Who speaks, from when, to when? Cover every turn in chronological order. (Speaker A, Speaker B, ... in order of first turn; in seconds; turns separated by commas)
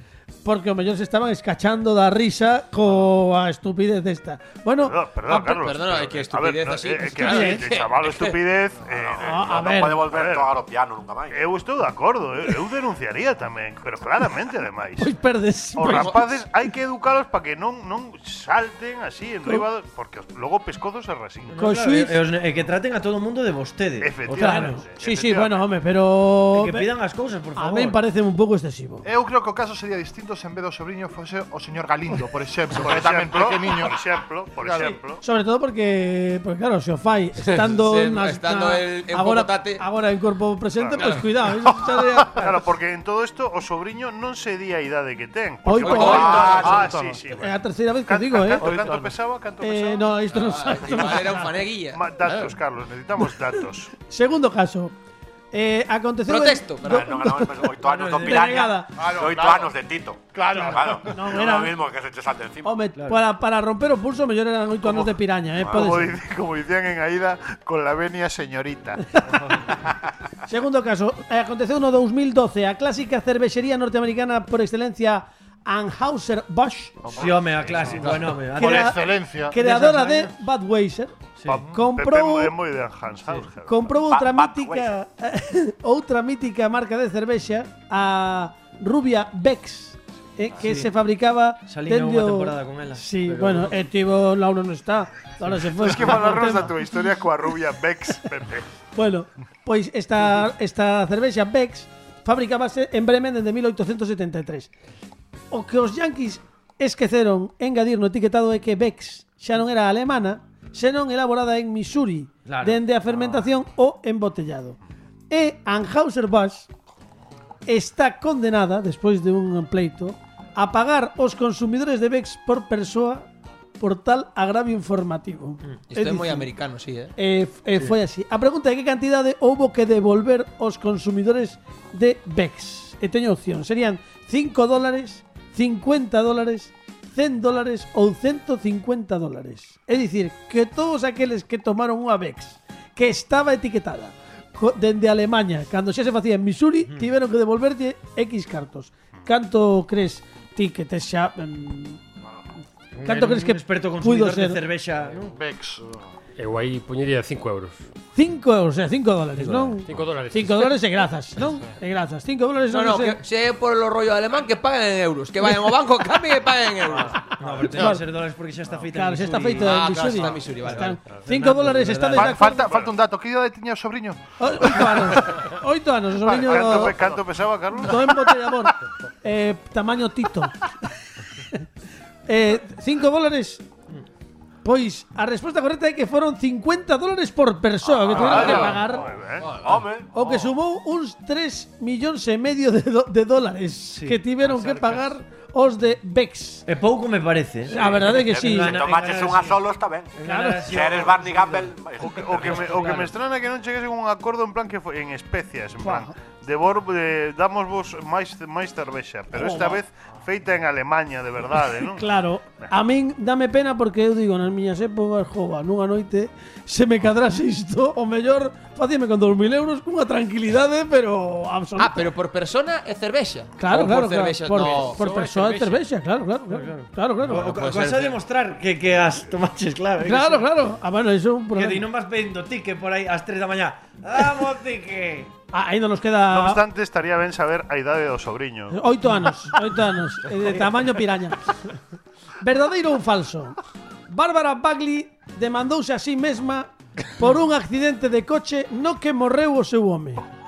Speaker A: 0.4-5.0, Speaker B: 4.8-10.6, Speaker C: 5.3-8.4, Speaker A: 7.2-7.6, Speaker D: 8.9-11.5, Speaker A: 9.2-10.1, Speaker B: 11.3-15.1, Speaker A: 15.0-16.3, Speaker B: 15.8-21.6, Speaker C: 15.9-16.2, Speaker E: 21.5-24.8, Speaker A: 21.6-22.2, Speaker B: 24.0-25.7, Speaker A: 24.3-26.9, Speaker E: 26.5-28.0, Speaker A: 27.6-29.1, Speaker F: 29.1-35.0, Speaker B: 32.7-35.2, Speaker A: 35.2-42.6, Speaker C: 37.5-39.8, Speaker B: 40.8-41.2, Speaker B: 42.3-50.2, Speaker A: 45.6-46.8, Speaker C: 45.8-46.8, Speaker D: 46.0-46.9, Speaker F: 46.2-47.2, Speaker A: 47.3-48.7, Speaker F: 48.6-49.1, Speaker A: 49.6-51.6, Speaker C: 50.3-52.5, Speaker B: 51.9-53.9, Speaker A: 54.1-54.9, Speaker A: 55.5-58.9, Speaker C: 56.3-57.0, Speaker D: 56.8-62.8, Speaker E: 57.8-58.7, Speaker F: 58.9-59.7, Speaker F: 60.3-61.2, Speaker A: 60.5-61.8, Speaker A: 62.6-66.1, Speaker E: 63.0-63.2, Speaker B: 65.7-69.1, Speaker A: 70.5-77.1, Speaker E: 77.2-80.3, Speaker B: 77.2-78.2, Speaker F: 77.8-79.5, Speaker A: 78.5-81.1, Speaker E: 81.4-81.6, Speaker B: 81.5-84.0, Speaker A: 81.7-82.5, Speaker A: 83.7-96.9, Speaker D: 84.1-84.9, Speaker E: 90.6-90.9, Speaker E: 91.7-93.8, Speaker B: 95.7-98.7, Speaker A: 99.0-104.7, Speaker A: 105.5-114.8, Speaker E: 112.5-113.4, Speaker A: 115.3-116.7, Speaker A: 117.7-123.3, Speaker A: 123.8-126.5, Speaker C: 125.9-127.1, Speaker A: 127.2-152.0, Speaker E: 152.9-155.3, Speaker A: 153.1-154.6, Speaker F: 155.3-156.0, Speaker G: 156.4-157.8, Speaker A: 158.2-163.2, Speaker G: 159.8-160.8, Speaker C: 162.7-167.3, Speaker E: 167.4-169.8, Speaker A: 167.7-168.1, Speaker A: 168.9-172.7, Speaker C: 169.6-171.0, Speaker E: 170.7-172.4, Speaker F: 172.1-175.1, Speaker B: 172.6-172.9, Speaker A: 174.4-177.0, Speaker B: 176.2-178.3, Speaker A: 177.8-180.7, Speaker A: 181.4-181.6, Speaker A: 182.3-183.6, Speaker A: 184.6-189.1, Speaker B: 188.0-189.6, Speaker C: 189.4-189.7, Speaker D: 189.4-190.1, Speaker A: 190.1-196.6, Speaker E: 193.9-194.2, Speaker G: 194.5-195.0, Speaker E: 196.7-199.6, Speaker A: 197.7-198.9, Speaker D: 198.1-202.9, Speaker E: 200.2-201.7, Speaker A: 200.2-200.8, Speaker B: 202.0-212.1, Speaker E: 202.2-203.1, Speaker A: 205.8-206.1, Speaker A: 209.3-209.8, Speaker A: 211.9-222.1, Speaker C: 221.8-225.0, Speaker A: 223.6-227.5, Speaker G: 225.0-225.8, Speaker E: 226.5-230.4, Speaker C: 227.3-228.2, Speaker A: 230.0-231.9, Speaker E: 231.5-235.3, Speaker A: 235.5-236.6, Speaker B: 236.3-238.8, Speaker A: 238.7-241.5, Speaker A: 242.4-243.6, Speaker A: 244.1-250.2